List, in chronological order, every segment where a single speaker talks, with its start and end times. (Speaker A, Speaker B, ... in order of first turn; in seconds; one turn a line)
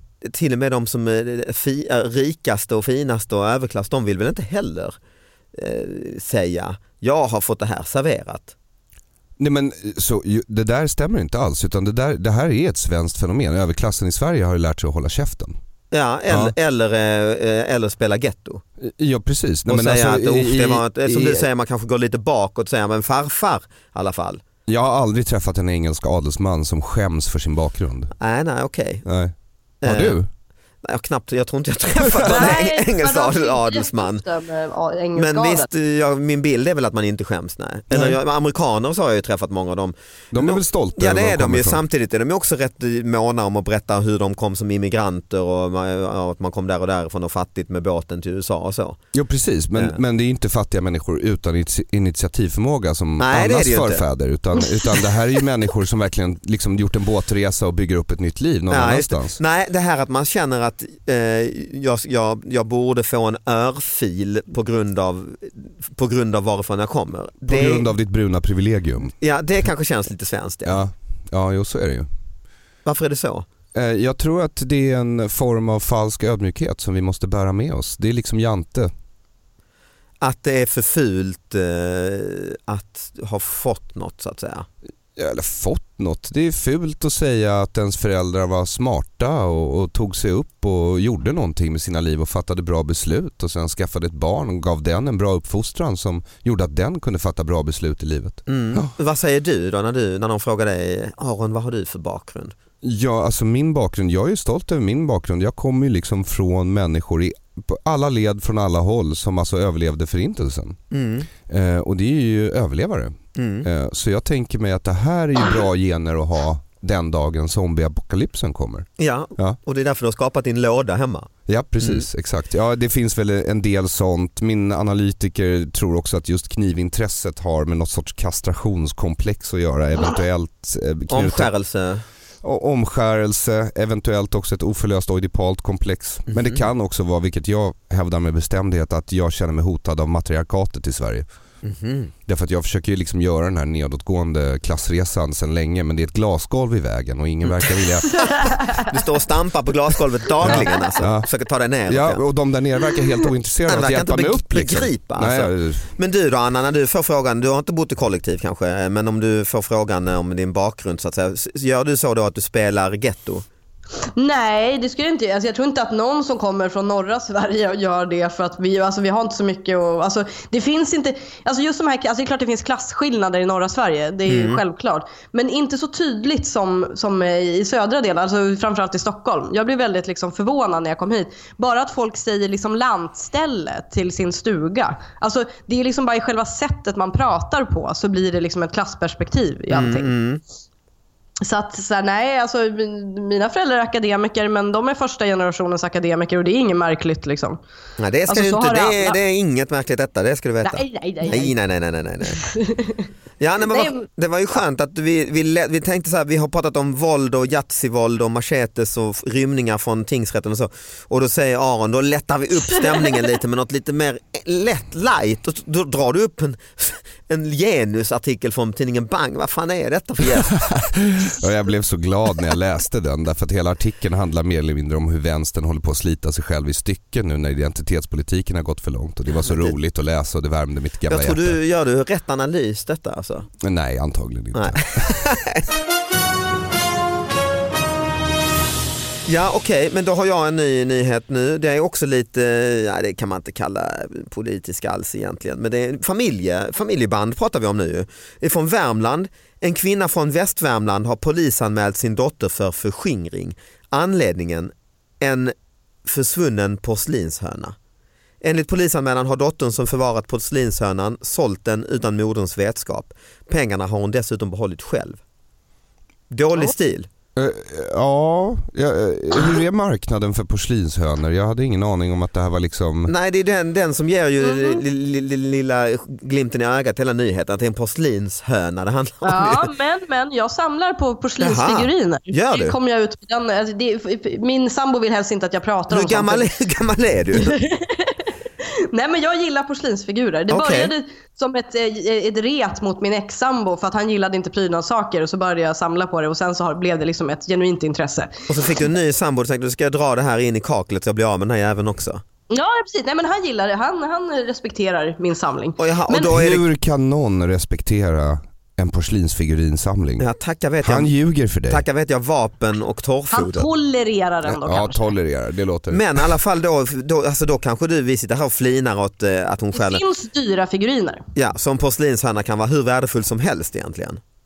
Speaker A: 0.2-5.0
Speaker A: 5.5-8.5
Speaker B: 9.4-15.5
Speaker A: 15.9-18.6
Speaker B: 16.3-16.5
Speaker B: 18.8-21.4
Speaker A: 19.7-24.4
Speaker B: 24.7-28.1
Speaker A: 28.2-29.0
Speaker B: 29.0-30.3
Speaker A: 29.8-30.2
Speaker A: 30.8-34.2
Speaker C: 32.2-35.7
Speaker A: 35.1-49.0
Speaker B: 37.9-38.2
Speaker B: 40.3-41.8
Speaker B: 49.1-59.4
Speaker A: 53.2-54.0
Speaker A: 58.7-67.9
Speaker B: 67.5-69.1
Speaker A: 69.2-70.8
Speaker B: 70.6-72.1
Speaker A: 72.8-73.5
Speaker B: 73.7-78.9
Speaker A: 80.2-84.7
Speaker B: 85.2-98.9
Speaker A: 98.5-102.5
Speaker B: 102.8-110.8
Speaker A: 110.9-111.3
Speaker B: 111.5-119.6
Speaker A: 113.3-113.7
Speaker A: 119.0-122.0
Speaker B: 121.5-131.5
Speaker A: 131.1-132.0
Speaker B: 132.4-141.2
Speaker A: 136.3-136.6
Speaker A: 141.6-142.1
Speaker B: 142.2-148.5
Speaker A: 147.4-147.8
Speaker A: 148.8-152.2
Speaker B: 150.4-151.3
Speaker B: 151.9-155.9
Speaker A: 153.7-163.4
Speaker C: 164.2-190.1
Speaker A: 174.3-174.6
Speaker A: 189.7-190.4
Speaker C: 191.4-197.6
Speaker A: 198.0-202.4
Speaker C: 198.3-199.2
Speaker C: 200.6-201.5
Speaker C: 202.4-203.0
Speaker A: 203.4-220.6
Speaker C: 203.7-204.1
Speaker B: 220.6-231.6
Speaker A: 229.4-229.7
Speaker A: 231.1-233.5
Speaker B: 233.6-235.3
Speaker A: 234.5-235.7
Speaker A: 239.3-255.5
Speaker A: 256.0-257.7
Speaker A: 258.4-265.2
Speaker A: 266.3-267.1
Speaker B: 267.4-273.1
Speaker A: 273.1-279.7
Speaker C: 274.4-274.8
Speaker C: 279.2-286.5
Speaker A: 281.4-282.8
Speaker A: 285.9-287.6
Speaker C: 287.4-298.3
Speaker A: 290.5-290.9
Speaker A: 298.5-302.2
Speaker C: 302.5-306.3
Speaker A: 305.8-306.7
Speaker B: 306.2-310.3
Speaker A: 310.2-311.1
Speaker B: 310.8-311.8
Speaker A: 311.7-313.7
Speaker C: 313.3-315.1
Speaker B: 314.4-316.3
Speaker A: 315.9-320.0
Speaker C: 319.7-321.2
Speaker A: 321.3-324.2